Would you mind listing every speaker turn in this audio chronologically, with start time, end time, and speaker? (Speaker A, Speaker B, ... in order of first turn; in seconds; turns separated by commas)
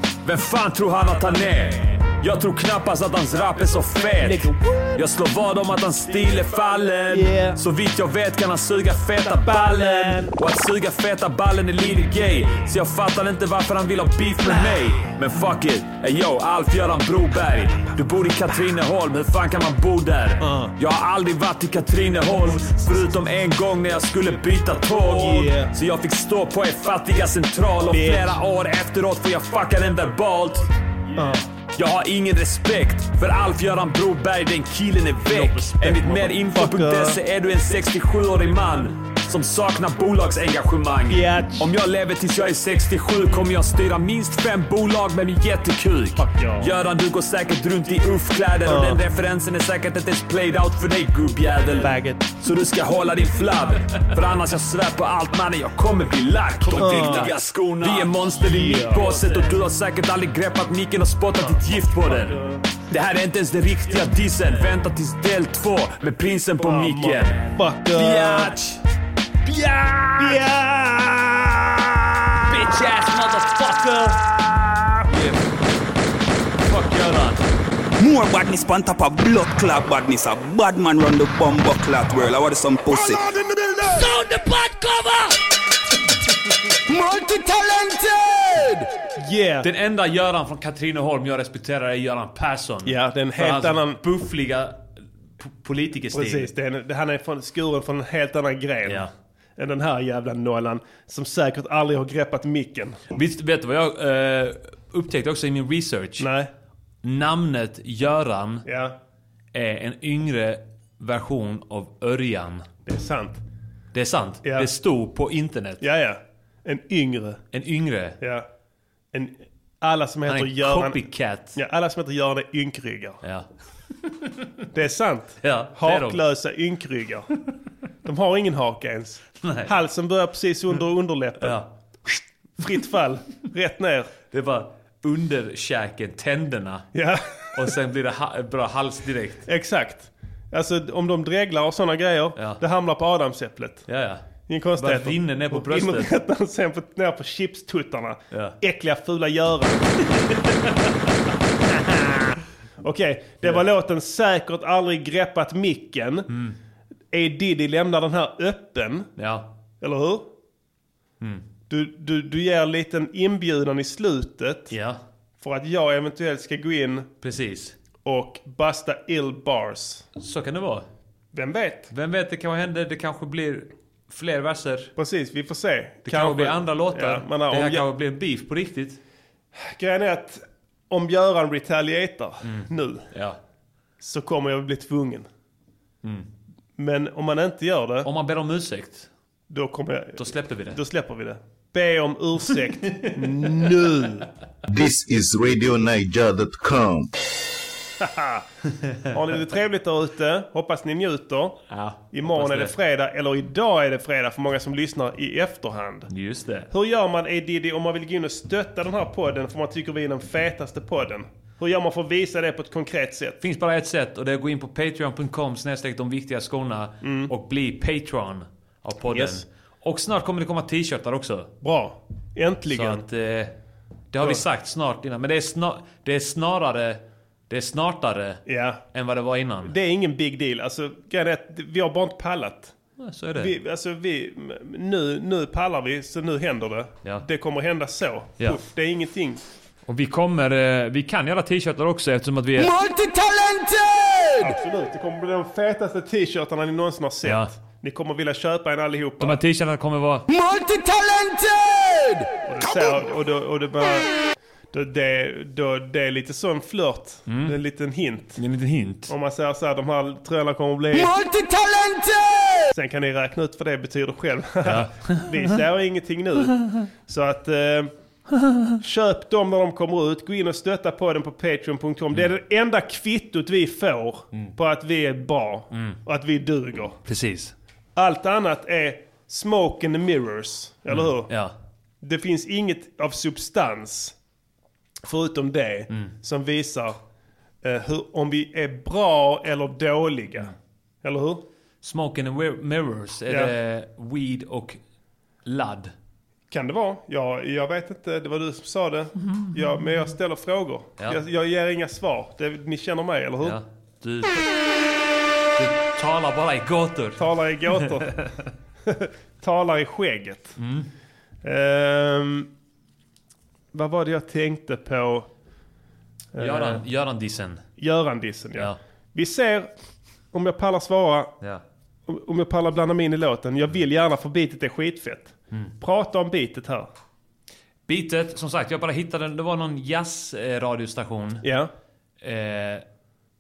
Speaker A: 0.2-30.7, Speaker B: 4.2-5.0, Speaker B: 7.1-7.6, Speaker B: 9.3-10.3, Speaker B: 20.4-20.7, Speaker B: 25.0-25.7, Speaker B: 27.9-28.4, Speaker B: 31.2-31.4, Speaker A: 31.8-68.8, Speaker C: 35.3-35.7, Speaker B: 35.4-37.2, Speaker B: 41.1-41.7, Speaker B: 46.2-46.7, Speaker B: 48.6-49.0, Speaker B: 51.7-52.3, Speaker C: 56.8-57.3, Speaker B: 56.8-59.4, Speaker B: 61.4-62.6, Speaker B: 66.6-68.5, Speaker C: 69.5-70.3, Speaker B: 70.2-71.7, Speaker C: 72.5-74.3, Speaker C: 75.1-75.6, Speaker C: 76.7-77.5, Speaker D: 78.0-83.3, Speaker C: 83.9-85.4, Speaker D: 87.6-87.9, Speaker B: 89.2-89.7, Speaker C: 89.6-94.9, Speaker B: 92.8-94.0, Speaker C: 95.4-96.5, Speaker B: 96.1-103.0, Speaker C: 98.8-99.1, Speaker C: 103.1-106.3, Speaker B: 106.2-106.5, Speaker C: 107.0-108.7, Speaker B: 108.7-109.0, Speaker C: 109.5-112.7, Speaker B: 112.9-113.4, Speaker C: 113.9-115.8, Speaker B: 114.4-114.7, Speaker B: 115.8-117.4, Speaker C: 117.5-118.2, Speaker B: 118.2-118.5, Speaker B: 119.1-123.2, Speaker C: 120.3-121.6, Speaker C: 123.2-123.5, Speaker B: 124.7-127.3, Speaker C: 125.4-126.2, Speaker B: 128.1-131.6, Speaker C: 129.4-129.7, Speaker C: 131.4-131.7, Speaker B: 132.6-134.1, Speaker C: 134.3-136.9, Speaker B: 136.9-137.7, Speaker C: 137.5-139.4, Speaker B: 139.5-143.9, Speaker C: 142.3-142.6, Speaker C: 143.9-146.1, Speaker B: 144.5-150.1, Speaker C: 148.3-148.6, Speaker B: 152.8-156.3, Speaker C: 156.3-156.6, Speaker B: 157.1-159.1, Speaker C: 159.2-159.5, Speaker B: 159.8-160.3, Speaker B: 161.7-164.7, Speaker C: 164.7-165.0, Speaker B: 165.4-167.1, Speaker C: 167.2-167.8, Speaker B: 168.1-170.1, Speaker C: 170.2-170.9, Speaker B: 171.3-171.9, Speaker C: 171.9-174.9, Speaker B: 175.0-177.9, Speaker C: 176.1-179.0, Speaker B: 179.6-183.1, Speaker C: 182.4-183.4, Speaker B: 184.0-185.3, Speaker C: 186.0-186.3, Speaker B: 186.8-188.1, Speaker C: 188.1-189.1, Speaker B: 189.5-194.3, Speaker C: 190.2-190.8, Speaker C: 192.9-193.3, Speaker E: 194.7-197.1, Speaker B: 198.0-198.5, Speaker B: 199.1-201.6, Speaker C: 201.7-202.7, Speaker B: 202.1-206.1, Speaker C: 206.1-206.7, Speaker B: 206.7-213.4, Speaker C: 213.4-221.5, Speaker B: 217.0-217.3, Speaker B: 219.1-219.4, Speaker B: 221.6-223.1, Speaker C: 222.7-223.6, Speaker C: 224.1-229.7, Speaker B: 228.5-228.8, Speaker B: 229.6-232.8, Speaker C: 233.0-233.6, Speaker B: 233.4-239.4, Speaker C: 239.9-242.9, Speaker B: 244.4-249.4, Speaker C: 247.2-247.6, Speaker C: 249.2-250.3, Speaker B: 252.4-254.1, Speaker B: 254.7-258.4, Speaker C: 257.3-257.6, Speaker C: 258.4-259.1, Speaker B: 259.1-261.2, Speaker B: 262.7-266.6, Speaker C: 264.6-265.5, Speaker B: 267.1-267.9, Speaker B: 268.8-277.0, Speaker C: 275.7-276.0, Speaker C: 277.1-277.5, Speaker B: 278.0-281.3, Speaker C: 280.9-281.6, Speaker B: 282.0-284.1, Speaker B: 285.0-287.0, Speaker B: 287.6-290.5, Speaker B: 291.0-291.4, Speaker C: 291.8-294.8, Speaker B: 293.3-293.5, Speaker C: 295.4-295.9, Speaker B: 296.5-303.6, Speaker C: 303.4-304.5, Speaker C: 305.6-307.2, Speaker B: 307.2-308.2, Speaker C: 307.8-308.2, Speaker B: 308.9-310.6, Speaker C: 310.6-310.9, Speaker B: 311.4-312.5, Speaker B: 313.7-315.3, Speaker B: 316.4-316.8, Speaker C: 316.4-317.6, Speaker B: 317.8-319.7, Speaker B: 320.3-321.3, Speaker B: 322.1-326.9, Speaker C: 327.9-331.4, Speaker B: 331.4-331.7, Speaker C: 332.2-332.8